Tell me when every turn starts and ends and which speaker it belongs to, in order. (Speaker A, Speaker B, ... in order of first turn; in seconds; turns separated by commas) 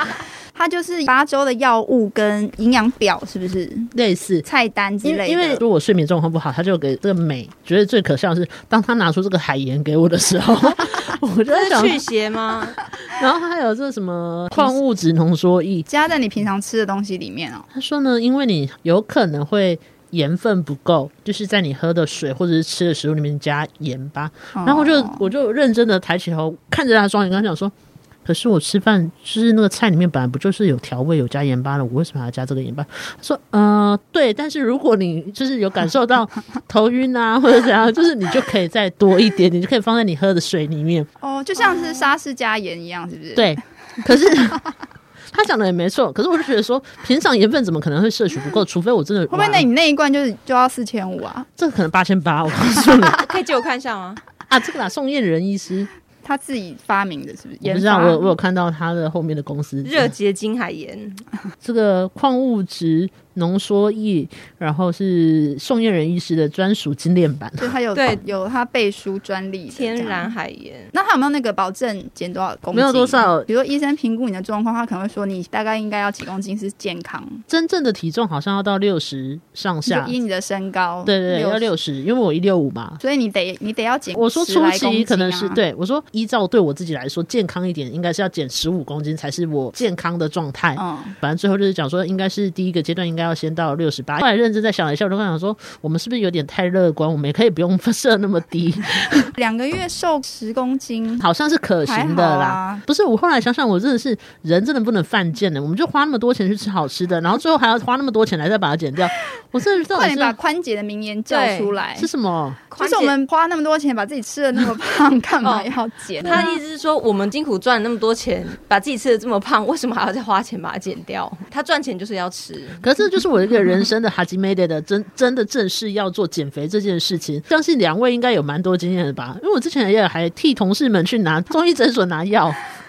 Speaker A: 0.5-3.9, Speaker B: 3.9-4.4, Speaker A: 4.4-5.6, Speaker B: 5.0-12.0, Speaker C: 11.5-12.8, Speaker B: 12.9-15.8, Speaker A: 15.9-17.6, Speaker B: 17.7-27.7, Speaker A: 24.5-25.2, Speaker B: 28.2-41.1, Speaker A: 41.2-43.5, Speaker B: 43.4-44.6, Speaker B: 45.3-49.7, Speaker A: 49.3-51.5, Speaker B: 51.6-53.2, Speaker C: 53.2-54.2, Speaker B: 54.5-55.9, Speaker A: 56.2-58.3, Speaker B: 57.6-60.1, Speaker C: 59.8-61.2, Speaker B: 61.6-67.7, Speaker A: 67.6-70.3, Speaker C: 67.9-68.2, Speaker C: 69.7-70.9, Speaker A: 70.9-77.4, Speaker B: 72.7-73.5, Speaker B: 77.5-80.2, Speaker A: 79.8-81.7, Speaker B: 81.0-83.0, Speaker A: 83.0-85.6, Speaker B: 84.1-99.3, Speaker A: 90.8-91.2, Speaker A: 99.3-101.2, Speaker B: 101.2-110.4, Speaker A: 101.8-102.8, Speaker A: 109.9-112.1, Speaker C: 111.3-111.8, Speaker B: 112.0-112.6, Speaker C: 112.7-113.1, Speaker A: 112.8-116.6, Speaker C: 115.4-122.8, Speaker B: 122.8-132.6